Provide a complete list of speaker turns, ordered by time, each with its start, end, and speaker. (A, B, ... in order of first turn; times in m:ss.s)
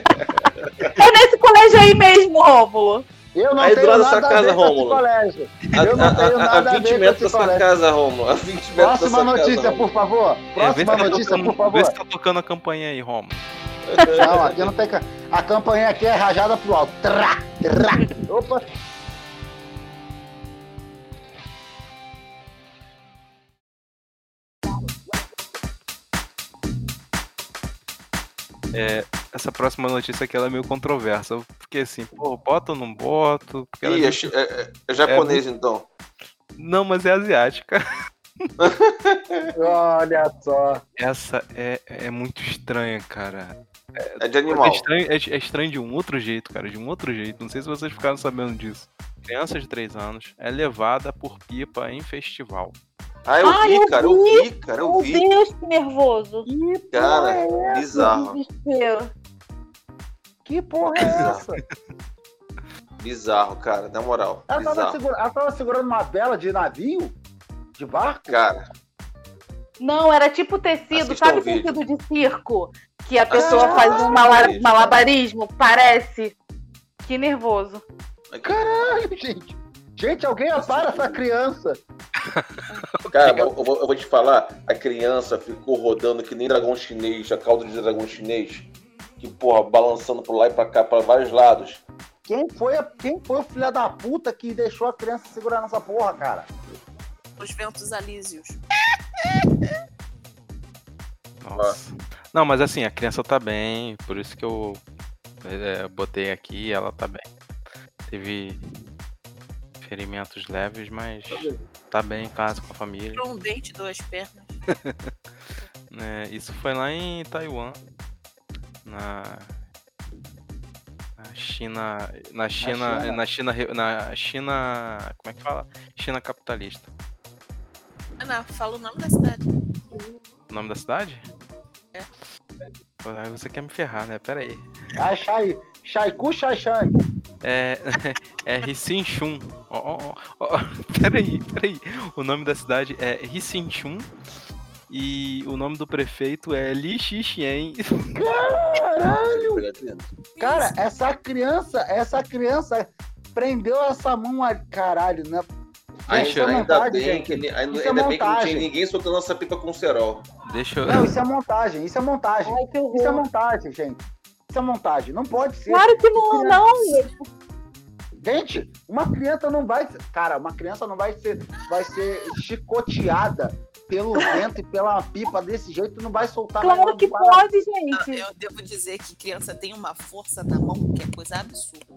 0:00.2-0:00.9 A
0:01.0-0:03.1 B
0:03.3-0:07.6 C
0:03.6-0:05.0 A
0:05.8-0:09.8 A
0:08.8-0:12.0 C
0:10.6-0:13.4 D
0:10.9-0:11.3 A
0:13.9-0:14.7 A
0:14.2-0:18.6 C
0:28.7-0:34.3 D
0:33.8-0:35.9 A
0:35.1-0:35.4 D
0:36.6-0:37.8 D
0:38.6-0:39.5 A
0:39.5-0:40.8 C
0:41.0-0:52.8 D
0:44.2-0:44.9 A
0:53.3-0:55.2 A
0:53.4-0:56.5 B
0:56.5-0:58.1 C
0:56.9-0:58.4 A
0:57.9-0:59.1 B
1:00.4-1:01.6 C
1:01.0-1:01.4 A
1:03.0-1:05.0 A
1:04.5-1:07.2 C
1:07.8-1:08.4 C
1:08.3-1:08.6 A
1:09.8-1:16.4 B
1:10.9-1:11.8 A
1:13.3-1:15.0 A
1:13.3-1:14.6 C
1:17.0-1:17.8 B
1:18.3-1:18.6 A
1:18.4-1:21.8 C
1:20.6-1:21.2 A
1:22.2-1:23.5 D
1:23.1-1:28.7 A
1:29.2-1:31.8 A
1:32.2-1:36.5 C
1:37.4-1:38.6 E
1:41.4-1:44.8 D
1:45.4-1:47.2 D
1:48.1-1:48.6 D
1:49.8-1:53.2 D
1:51.3-1:51.7 A
1:53.1-1:54.6 E
1:54.7-1:55.1 D
1:55.9-1:57.8 D
1:58.8-1:59.6 D
2:01.2-2:06.9 D
2:02.6-2:03.2 C
2:08.2-2:09.5 E
2:10.5-2:11.2 D
2:13.0-2:14.7 D
2:15.0-2:17.0 C
2:17.4-2:24.1 D
2:24.9-2:28.2 D
2:28.1-2:29.6 C
2:29.2-2:30.1 A
2:30.4-2:30.7 E
2:30.4-2:35.5 C
2:36.1-2:40.3 A
2:36.1-2:38.7 C
2:36.1-2:36.7 D
2:40.5-2:41.2 D
2:40.9-2:46.7 C
2:42.5-2:43.2 B
2:45.7-2:47.1 B
2:48.2-2:57.4 C
2:51.6-2:52.0 E
2:56.6-2:58.2 B
2:58.0-3:01.9 E